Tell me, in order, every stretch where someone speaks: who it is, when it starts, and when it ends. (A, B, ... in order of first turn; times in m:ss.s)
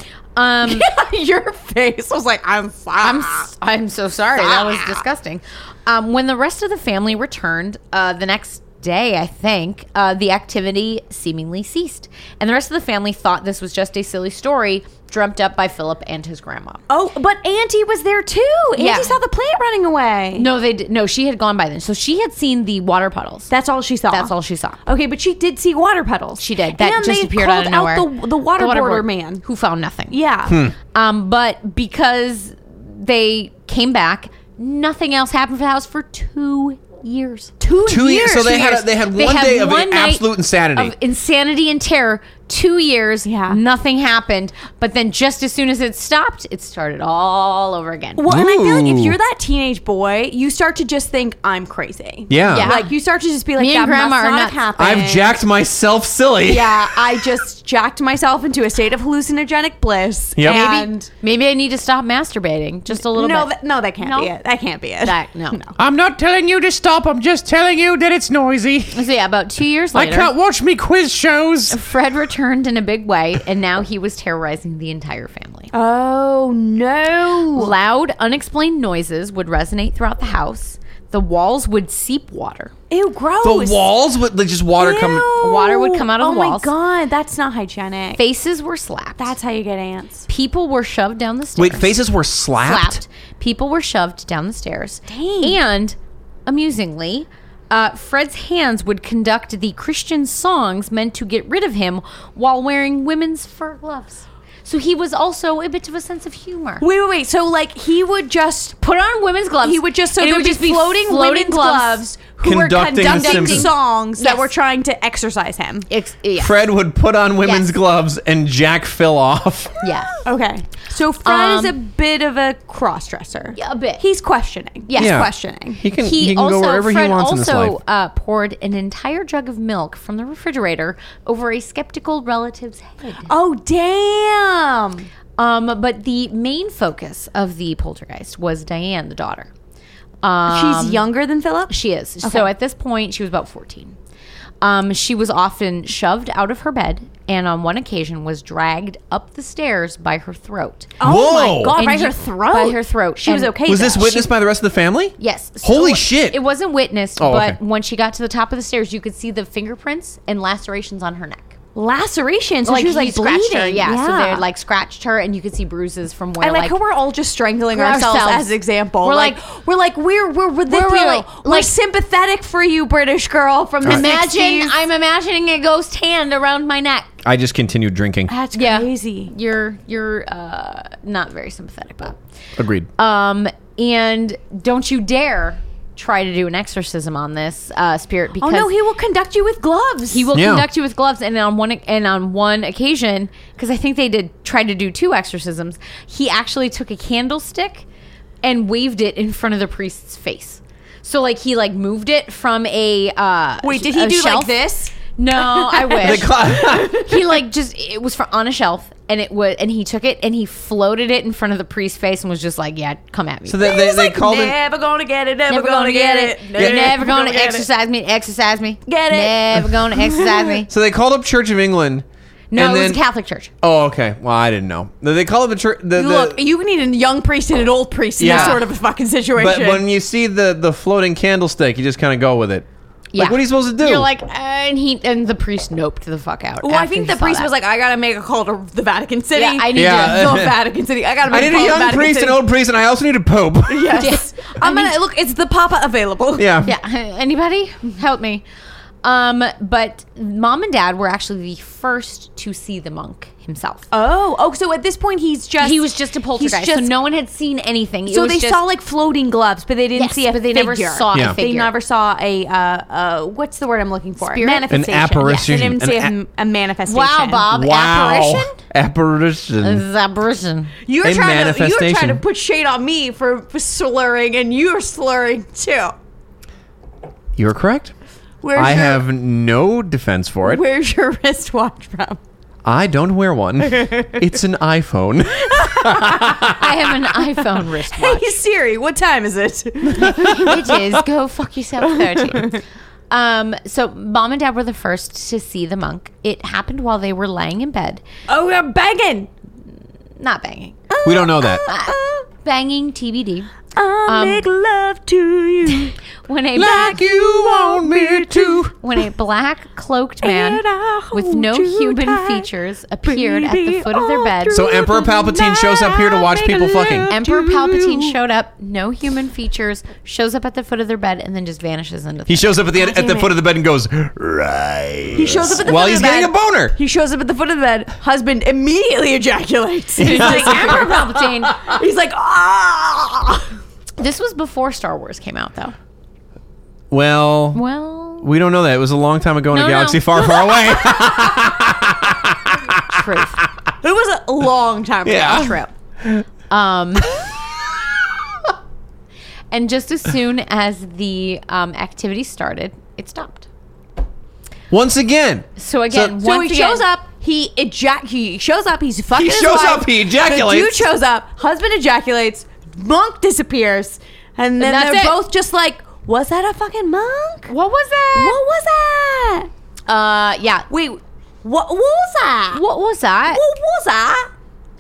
0:00.4-0:00.9 A
0:00.6-0:03.5 B
0:03.0-0:16.8 A
0:04.4-0:05.0 B
0:16.9-0:20.5 B
0:18.8-0:19.2 A
0:20.4-0:23.5 A
0:23.5-0:24.3 B
0:24.1-0:24.8 A
0:24.9-0:29.4 B
0:26.4-0:30.2 A
0:30.1-0:30.6 B
0:30.5-0:30.8 C
0:30.9-0:37.5 A
0:37.6-0:38.8 B
0:37.8-0:41.0 C
0:39.1-0:48.2 A
0:43.3-0:43.6 B
0:48.2-0:55.4 B
0:48.3-0:49.2 C
0:52.3-0:52.7 C
0:52.5-0:52.9 A
0:53.6-0:54.6 A
0:54.8-0:57.0 C
0:56.4-1:01.1 B
1:00.4-1:00.6 C
1:00.5-1:04.3 A
1:02.9-1:05.7 B
1:05.0-1:05.6 A
1:05.8-1:09.0 D
1:08.9-1:10.3 A
1:10.0-1:11.8 D
1:11.7-1:15.7 A
1:15.7-1:17.7 B
1:17.6-1:22.7 A
1:22.9-1:23.9 B
1:23.4-1:25.3 C
1:24.8-1:28.2 B
1:25.4-1:26.7 A
1:28.2-1:29.3 A
1:29.2-1:30.3 B
1:30.3-1:32.0 A
1:31.6-1:33.0 C
1:32.6-1:46.8 A
1:35.1-1:35.6 B
1:46.8-1:48.8 B
1:48.8-1:52.1 A
1:49.6-1:55.9 B
1:52.4-1:53.7 C
1:53.0-1:54.5 A
1:55.9-1:56.6 A
1:56.4-1:59.7 C
1:57.4-1:57.7 A
1:59.8-2:00.2 A
2:00.3-2:05.8 B
2:01.2-2:01.8 A
2:03.6-2:04.0 A
2:04.9-2:05.3 A
2:05.0-2:07.8 C
2:05.9-2:13.3 A
2:13.3-2:15.1 B
2:15.4-2:19.5 A
2:20.2-2:21.0 A
2:20.5-2:22.5 B
2:21.7-2:24.0 A
2:24.6-2:31.0 A
2:31.0-2:34.3 B
2:31.0-2:31.8 C
2:31.8-2:34.3 A
2:33.7-2:36.4 C
2:35.2-2:41.6 A
2:37.2-2:37.6 C
2:41.8-2:44.4 B
2:42.6-2:46.8 A
2:46.4-2:54.8 B
2:47.7-2:49.4 A
2:50.7-2:51.7 A
2:53.8-2:57.1 A
2:57.2-2:58.3 C
2:58.3-2:59.3 B
2:58.6-3:02.2 A
3:02.6-3:02.9 C
3:03.0-3:08.7 A
3:08.4-3:10.3 B
3:10.1-3:17.8 A
3:10.3-3:10.7 C
3:18.4-3:33.8 A
3:23.6-3:27.1 B
3:26.0-3:27.0 C
3:33.5-3:34.6 C
3:33.6-3:37.7 B
3:35.5-3:40.7 A
3:36.6-3:36.9 C
3:38.9-3:40.6 B
3:40.7-3:43.0 C
3:42.5-3:43.5 A
3:43.6-3:46.4 C
3:46.0-3:49.8 B
3:48.2-3:48.6 C
3:48.2-3:48.6 A
3:49.4-3:52.7 C
3:53.1-3:57.5 A
3:53.2-3:54.1 C
3:56.6-4:02.4 B
3:59.4-4:00.5 A
3:59.7-4:00.6 C
4:01.3-4:04.0 C
4:03.7-4:06.7 B
4:04.0-4:04.9 A
4:06.4-4:06.7 C
4:06.6-4:08.4 A
4:09.0-4:13.9 A
4:13.9-4:16.9 B
4:15.6-4:18.6 A
4:18.1-4:27.5 B
4:20.0-4:21.7 A
4:21.1-4:21.4 C
4:24.2-4:25.5 A
4:24.7-4:26.1 C
4:26.9-4:28.6 A
4:27.5-4:29.8 C
4:29.6-4:30.7 A
4:30.8-4:36.0 B
4:31.0-4:32.2 C
4:37.4-4:37.9 C
4:38.4-4:39.0 B
4:38.5-4:40.6 C
4:40.4-4:42.2 B
4:42.6-4:46.7 C
4:45.6-4:46.6 B
4:46.5-4:48.4 A
4:47.9-4:50.7 B
4:50.0-4:52.6 A
4:51.9-4:52.6 B
4:53.1-4:58.0 A
4:58.3-4:59.3 B
5:00.2-5:00.9 A
5:00.9-5:02.3 B
5:01.0-5:01.6 C
5:01.6-5:03.5 A
5:03.7-5:06.0 B
5:04.1-5:04.5 A
5:06.3-5:07.0 A
5:06.6-5:08.6 C
5:06.6-5:08.7 D
5:06.6-5:08.6 B
5:08.8-5:14.7 A
5:10.2-5:12.5 B
5:13.1-5:18.1 B
5:14.5-5:17.1 C
5:17.1-5:23.3 A
5:22.3-5:26.8 C
5:25.1-5:33.5 B
5:30.0-5:30.9 C
5:30.0-5:31.6 A
5:34.0-5:35.8 A
5:36.9-5:37.6 C
5:37.5-5:38.3 A
5:38.2-5:43.4 C
5:39.5-5:40.6 A
5:42.9-5:43.4 A
5:43.8-5:45.7 B
5:45.1-5:46.3 C
5:45.2-5:45.7 A
5:46.5-5:47.2 A
5:49.5-5:53.5 A
5:54.7-5:56.1 C
5:55.6-5:56.9 A
5:56.2-6:07.5 B
5:59.1-6:00.9 C
6:04.6-6:05.2 A
6:07.5-6:08.4 A
6:08.1-6:09.5 B
6:09.9-6:10.7 A
6:10.7-6:12.6 B
6:12.5-6:13.4 A
6:13.3-6:14.3 B